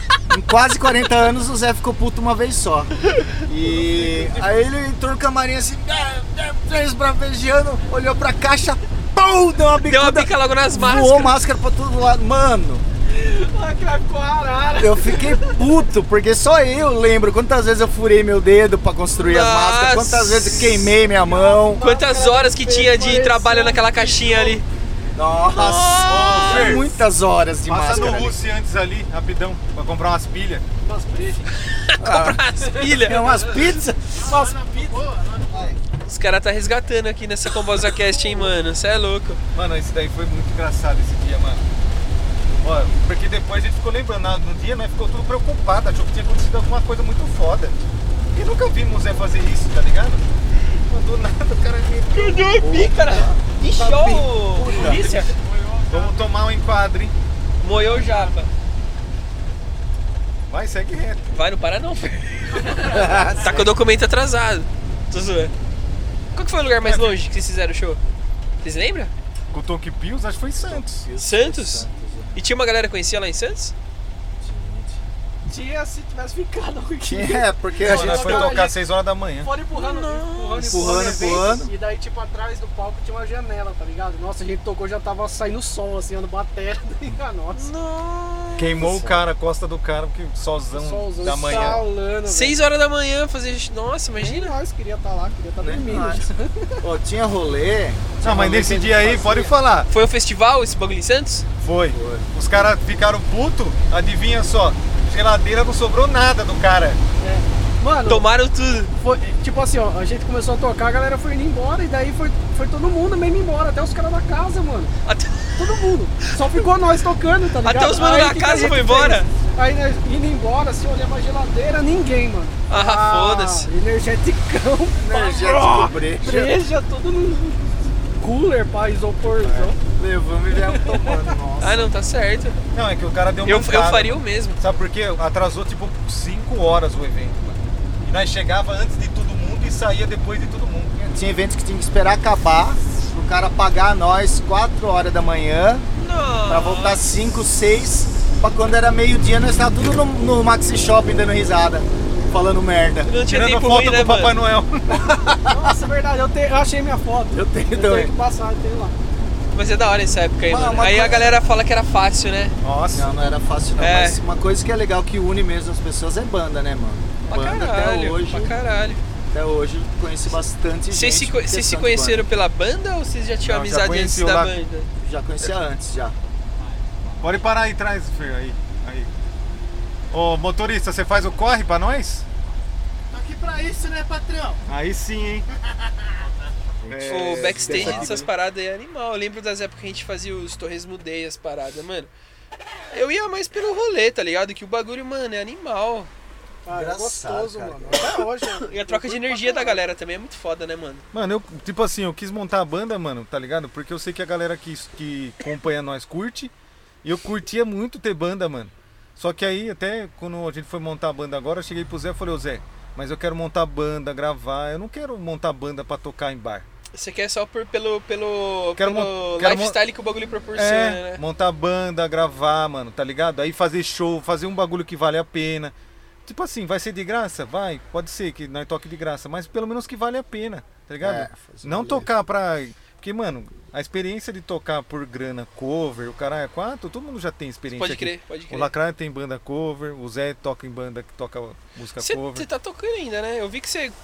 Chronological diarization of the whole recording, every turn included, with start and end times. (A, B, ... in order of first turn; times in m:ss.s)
0:00.3-0:12.8 A
0:03.6-0:04.5 B
0:09.8-0:11.4 C
0:13.1-0:15.7 B
0:14.8-0:21.8 A
0:19.2-0:20.9 C
0:21.1-0:24.6 B
0:21.8-0:24.6 C
0:25.2-0:28.4 A
0:25.5-0:26.9 C
0:26.0-0:26.9 D
0:27.7-0:30.6 D
0:30.8-0:31.6 B
0:31.7-0:33.7 C
0:32.0-0:34.2 A
0:32.6-0:35.0 B
0:34.2-0:35.8 E
0:36.0-0:39.4 C
0:39.5-0:41.6 D
0:42.6-0:50.2 D
0:50.9-0:52.5 D
0:52.1-0:55.3 C
0:52.6-0:55.2 A
0:54.7-0:55.4 B
0:54.7-0:56.3 E
0:55.9-0:57.1 D
0:57.6-0:58.5 C
0:57.6-0:58.3 B
1:00.5-1:01.3 D
1:01.3-1:05.5 C
1:02.6-1:03.2 B
1:02.8-1:03.8 A
1:06.4-1:08.0 C
1:06.8-1:07.2 D
1:08.6-1:09.1 C
1:09.5-1:11.0 D
1:10.6-1:12.4 A
1:11.2-1:13.7 C
1:14.4-1:15.1 A
1:15.5-1:18.8 B
1:17.0-1:18.6 A
1:17.8-1:19.5 D
1:19.4-1:27.7 B
1:19.7-1:21.4 C
1:20.6-1:21.7 A
1:21.0-1:21.4 D
1:27.6-1:28.9 C
1:28.6-1:31.9 D
1:28.8-1:29.2 A
1:30.7-1:32.6 B
1:31.5-1:31.7 A
1:32.3-1:34.6 C
1:34.1-1:36.8 B
1:35.6-1:36.3 A
1:36.8-1:39.6 A
1:38.2-1:39.9 D
1:39.9-1:41.5 C
1:41.6-1:47.0 D
1:41.9-1:42.3 A
1:47.2-1:48.3 B
1:48.1-1:48.9 C
1:49.0-1:54.9 B
1:55.0-1:55.6 C
1:55.6-2:09.8 B
1:57.6-1:59.3 C
2:02.7-2:03.7 C
2:05.0-2:06.6 A
2:09.4-2:09.7 D
2:09.8-2:11.9 A
2:10.6-2:11.2 B
2:11.6-2:12.6 C
2:12.7-2:21.1 D
2:13.4-2:14.6 C
2:21.0-2:25.9 A
2:26.0-2:27.1 C
2:26.5-2:33.2 A
2:33.1-2:34.4 C
2:33.3-2:35.1 D
2:34.9-2:35.8 A
2:35.5-2:39.0 B
2:37.3-2:38.1 A
2:39.5-2:42.6 C
2:40.5-2:41.4 A
2:42.6-2:43.1 D
2:42.9-2:48.6 A
2:43.8-2:44.2 C
2:47.3-2:49.0 C
2:49.3-2:52.3 A
2:50.9-2:54.9 C
2:53.4-2:54.5 D
2:55.0-2:56.2 A
2:57.2-2:59.1 D
3:00.1-3:02.3 D
3:03.1-3:04.6 E
3:04.7-3:05.5 D
3:06.8-3:08.3 A
3:06.9-3:08.3 D
3:07.1-3:12.1 C
3:12.9-3:16.1 C
3:16.6-3:19.9 B
3:16.7-3:18.2 A
3:18.4-3:21.0 C
3:21.1-3:26.5 D
3:27.0-3:36.7 D
3:36.9-3:41.2 C
3:38.8-3:39.8 D
3:40.6-3:45.7 D
3:46.2-4:02.5 D
3:51.0-3:52.1 A
3:57.7-3:58.7 C
4:02.0-4:04.0 C